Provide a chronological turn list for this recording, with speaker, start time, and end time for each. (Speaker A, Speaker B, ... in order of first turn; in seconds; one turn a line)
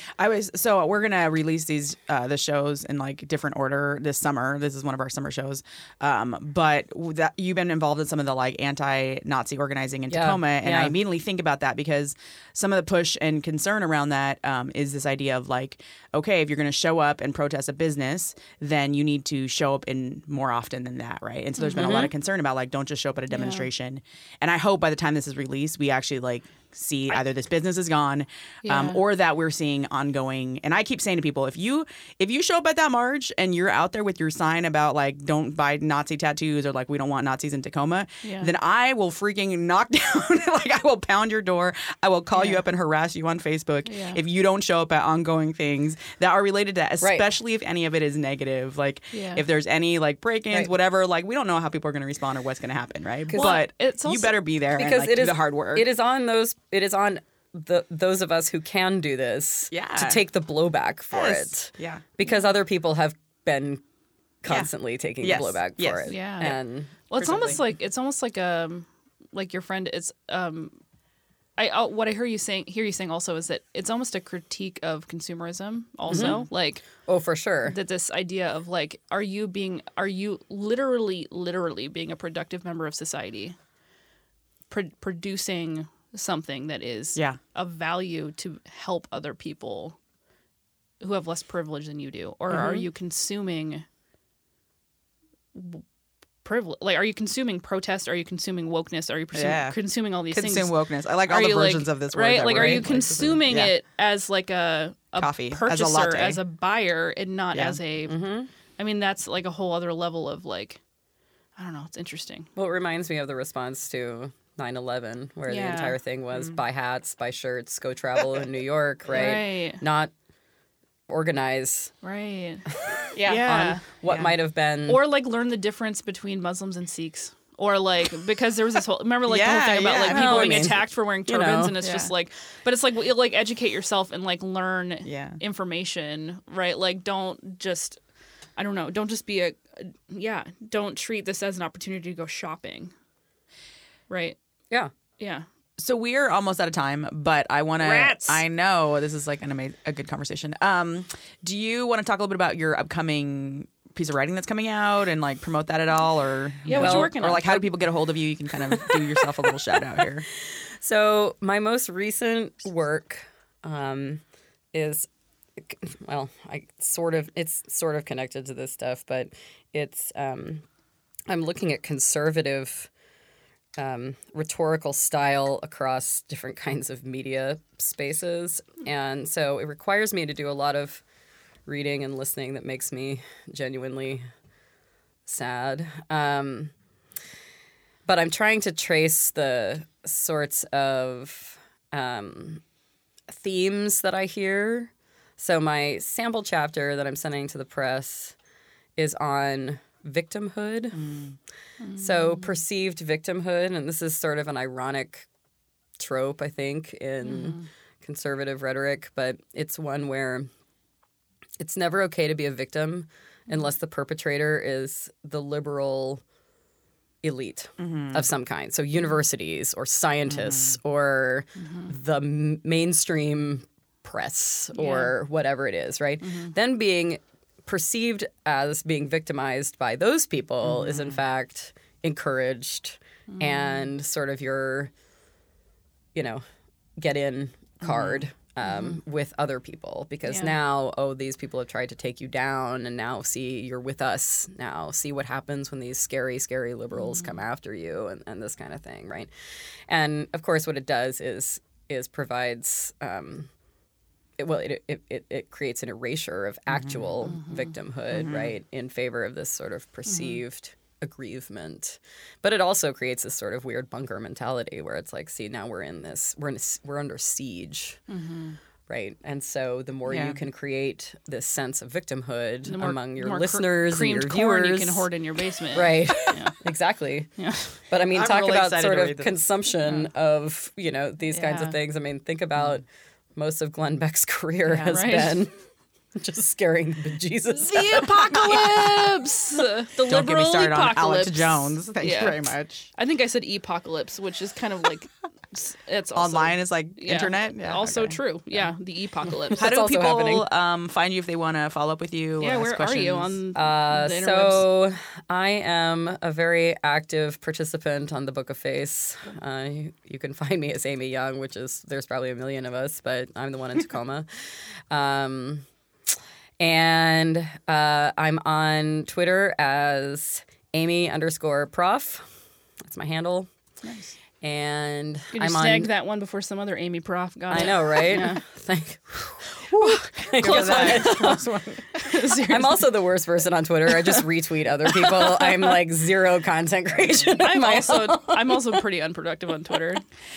Speaker A: 0.2-55.9
Speaker B: 10.1-10.9
Speaker C: 21.6-22.1
Speaker C: 23.3-23.7
Speaker C: 28.6-29.0
Speaker C: 38.2-38.5
Speaker C: 43.9-44.2
Speaker C: 49.1-49.4
Speaker B: 53.3-53.6
Speaker C: 53.3-54.4
Speaker B: 54.7-63.8
Speaker A: 59.7-60.2
Speaker A: 61.1-62.0
Speaker B: 64.4-66.9
Speaker A: 64.5-66.6
Speaker C: 66.1-70.8
Speaker A: 67.2-67.6
Speaker C: 71.6-76.8
Speaker B: 76.1-77.8
Speaker A: 76.1-76.4
Speaker C: 77.7-83.5
Speaker C: 84.7-90.0
Speaker C: 91.0-93.8
Speaker A: 92.5-92.8
Speaker C: 95.5-95.8
Speaker C: 96.4-100.7
Speaker A: 99.3-99.8
Speaker A: 100.3-103.7
Speaker C: 101.2-108.2
Speaker A: 105.2-106.4
Speaker A: 107.5-107.8
Speaker B: 108.1-108.5
Speaker C: 108.8-110.8
Speaker C: 111.6-112.5
Speaker B: 112.5-120.1
Speaker C: 115.5-116.0
Speaker C: 119.1-119.8
Speaker B: 121.1-121.9
Speaker C: 122.0-122.6
Speaker B: 122.8-125.0
Speaker A: 123.1-124.3
Speaker C: 123.2-123.8
Speaker C: 124.9-138.0
Speaker A: 129.3-130.7
Speaker B: 130.1-131.7
Speaker A: 131.8-132.1
Speaker A: 135.0-135.4
Speaker C: 138.6-142.9
Speaker C: 144.1-144.4
Speaker C: 145.2-145.4
Speaker A: 145.8-160.2
Speaker C: 147.8-148.4
Speaker C: 156.6-157.6
Speaker B: 156.7-157.1
Speaker B: 158.7-159.2
Speaker B: 160.8-164.2
Speaker B: 164.7-165.1
Speaker B: 165.6-170.6
Speaker B: 171.3-172.9
Speaker B: 173.8-181.0
Speaker B: 181.7-184.2
Speaker B: 185.3-186.7
Speaker B: 188.1-192.6
Speaker B: 193.3-198.3
Speaker B: 198.9-201.1
Speaker A: 200.9-201.3
Speaker C: 201.8-202.5
Speaker B: 201.9-205.3
Speaker B: 206.0-210.5
Speaker C: 207.2-207.6
Speaker B: 211.6-216.2
Speaker B: 217.2-234.9
Speaker A: 217.8-218.3
Speaker A: 220.3-220.8
Speaker C: 221.6-221.9
Speaker C: 224.8-225.1
Speaker C: 226.2-226.5
Speaker A: 230.6-231.1
Speaker C: 233.3-233.9
Speaker B: 236.1-236.4
Speaker B: 237.0-249.3
Speaker A: 237.8-238.2
Speaker C: 238.6-239.0
Speaker C: 240.3-240.5
Speaker C: 246.9-247.4
Speaker B: 249.9-253.5
Speaker B: 254.4-268.0
Speaker A: 256.7-257.0
Speaker A: 258.1-258.5
Speaker C: 268.1-268.6
Speaker B: 268.9-275.1
Speaker A: 270.1-270.4
Speaker C: 272.6-276.6
Speaker B: 275.7-285.5
Speaker C: 277.4-277.8
Speaker A: 278.1-279.3
Speaker C: 281.3-281.8
Speaker C: 284.8-285.4
Speaker B: 286.1-288.9
Speaker C: 287.6-292.4
Speaker A: 290.1-292.9
Speaker C: 292.9-299.6
Speaker A: 296.1-298.2
Speaker B: 299.5-300.5
Speaker A: 299.5-303.4
Speaker C: 302.4-304.6
Speaker B: 303.5-315.7
Speaker B: 316.6-322.3
Speaker B: 322.8-323.5
Speaker C: 323.8-324.1
Speaker B: 324.4-325.9
Speaker C: 325.3-328.4
Speaker B: 327.5-331.4
Speaker A: 330.4-332.1
Speaker C: 330.5-331.3
Speaker C: 332.0-332.8
Speaker B: 332.3-338.8
Speaker C: 335.0-335.7
Speaker C: 337.3-340.0